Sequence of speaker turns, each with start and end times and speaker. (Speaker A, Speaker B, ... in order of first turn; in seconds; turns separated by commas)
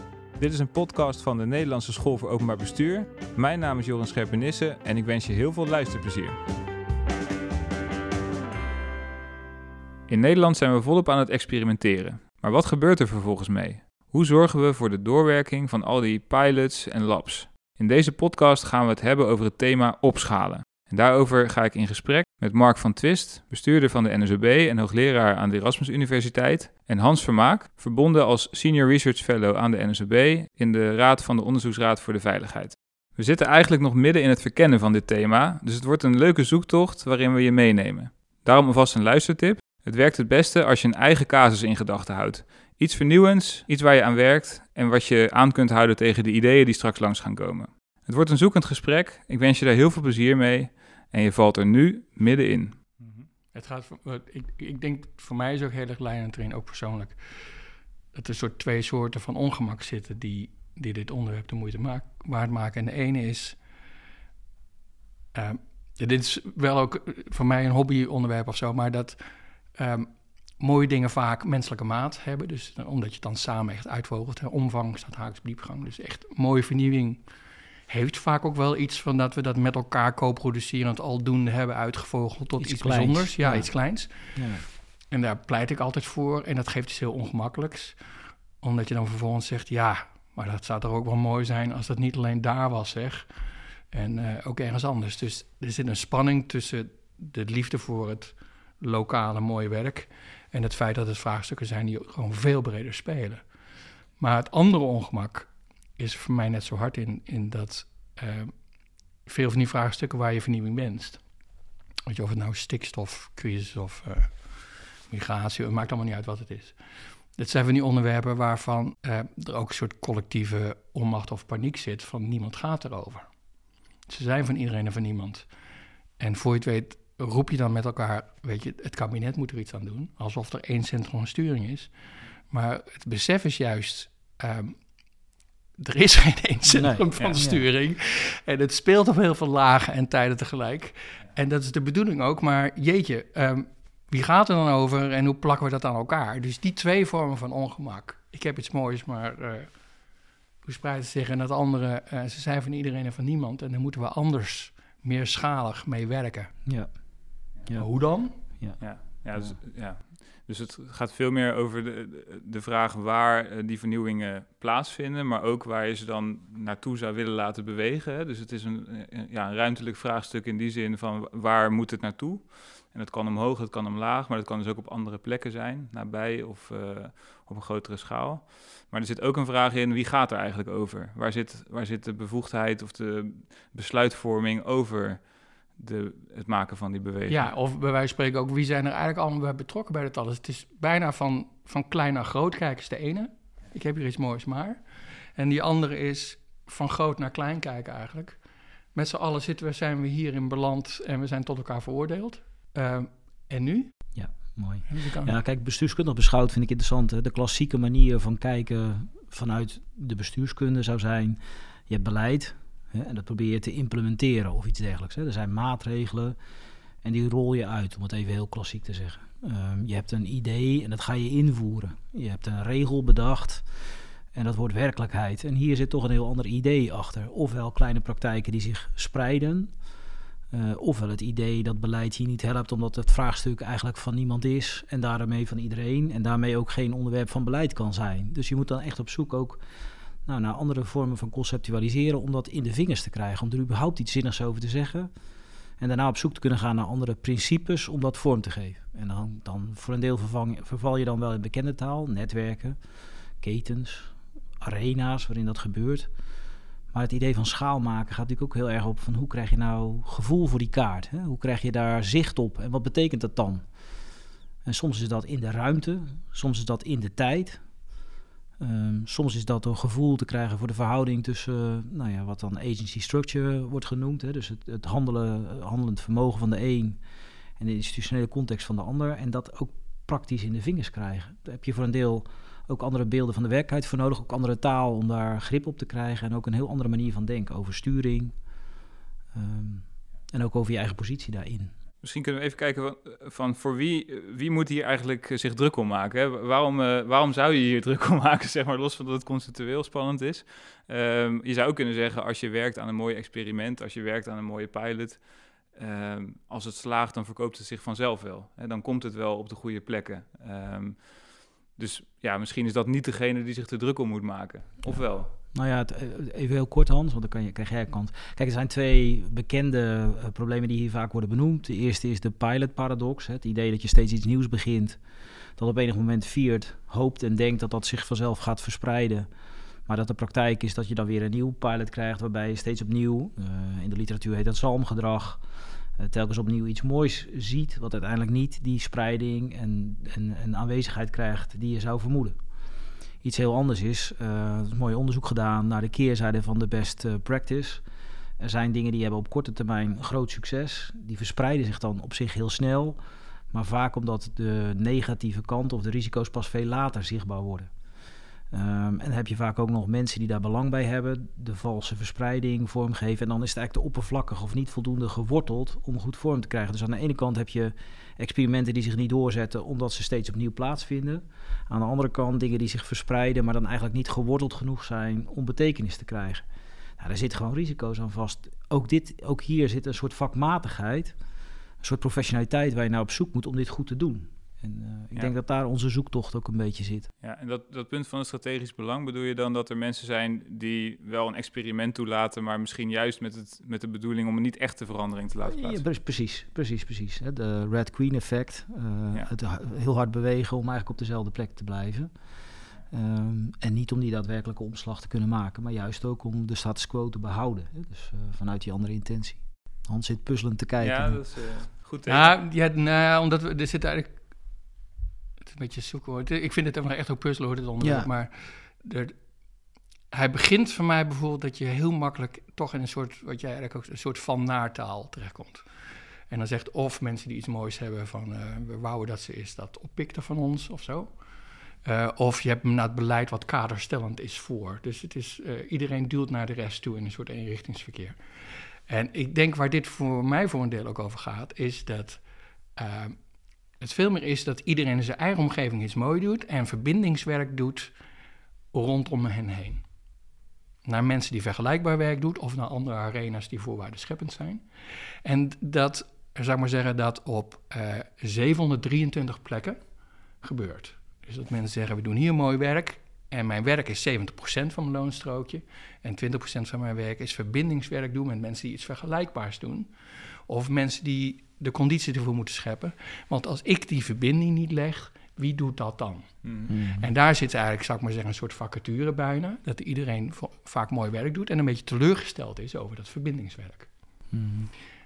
Speaker A: 0.4-6.4, Speaker A: 10.1-52.8, Speaker B: 53.5-57.2, Speaker B: 58.1-63.6, Speaker B: 65.3-69.2, Speaker B: 69.8-77.2, Speaker B: 77.9-84.4, Speaker C: 82.6-83.7, Speaker C: 84.3-84.6, Speaker B: 85.1-88.0, Speaker B: 88.6-93.3, Speaker B: 93.9-103.4, Speaker B: 104.2-108.5, Speaker B: 109.2-111.2, Speaker B: 112.1-114.3, Speaker B: 115.1-116.8, Speaker B: 117.3-123.3, Speaker B: 124.1-125.5, Speaker B: 126.2-131.9, Speaker B: 132.5-134.8, Speaker B: 135.8-149.7, Speaker C: 136.7-137.6, Speaker B: 150.6-156.5, Speaker C: 156.7-156.9, Speaker B: 157.8-158.4, Speaker C: 158.4-158.8, Speaker A: 158.8-185.2, Speaker A: 185.8-187.5, Speaker B: 187.3-194.8, Speaker B: 195.3-198.4, Speaker B: 198.9-203.9, Speaker C: 204.1-216.3, Speaker B: 204.9-205.3, Speaker C: 217.0-223.6, Speaker C: 224.3-229.7, Speaker C: 230.5-239.6, Speaker C: 240.2-245.1, Speaker C: 245.8-252.8, Speaker C: 253.4-256.1, Speaker C: 256.9-263.6, Speaker C: 264.6-267.6, Speaker C: 268.6-277.0, Speaker C: 277.6-288.3, Speaker C: 289.3-291.7, Speaker A: 292.0-311.2, Speaker A: 311.8-315.3, Speaker C: 315.5-325.0, Speaker C: 325.6-329.3, Speaker C: 329.9-335.4, Speaker C: 336.0-342.4, Speaker C: 343.2-347.8, Speaker C: 348.4-353.0, Speaker C: 353.5-357.7, Speaker C: 358.5-376.4, Speaker C: 377.0-381.1, Speaker C: 381.8-387.1, Speaker A: 387.2-395.8, Speaker C: 395.5-402.1, Speaker C: 402.9-411.2, Speaker A: 410.8-412.3, Speaker B: 412.1-414.2, Speaker B: 415.4-419.1, Speaker C: 417.8-418.1, Speaker B: 420.1-425.6, Speaker B: 426.3-431.1, Speaker B: 431.8-438.2, Speaker B: 438.9-442.2, Speaker B: 442.8-443.2, Speaker B: 443.8-447.9, Speaker B: 448.7-449.8, Speaker B: 450.8-454.6, Speaker B: 455.2-459.8, Speaker B: 460.4-469.9, Speaker B: 470.5-476.4, Speaker A: 476.4-476.7, Speaker C: 476.7-477.1, Speaker B: 476.9-483.9, Speaker C: 484.3-484.7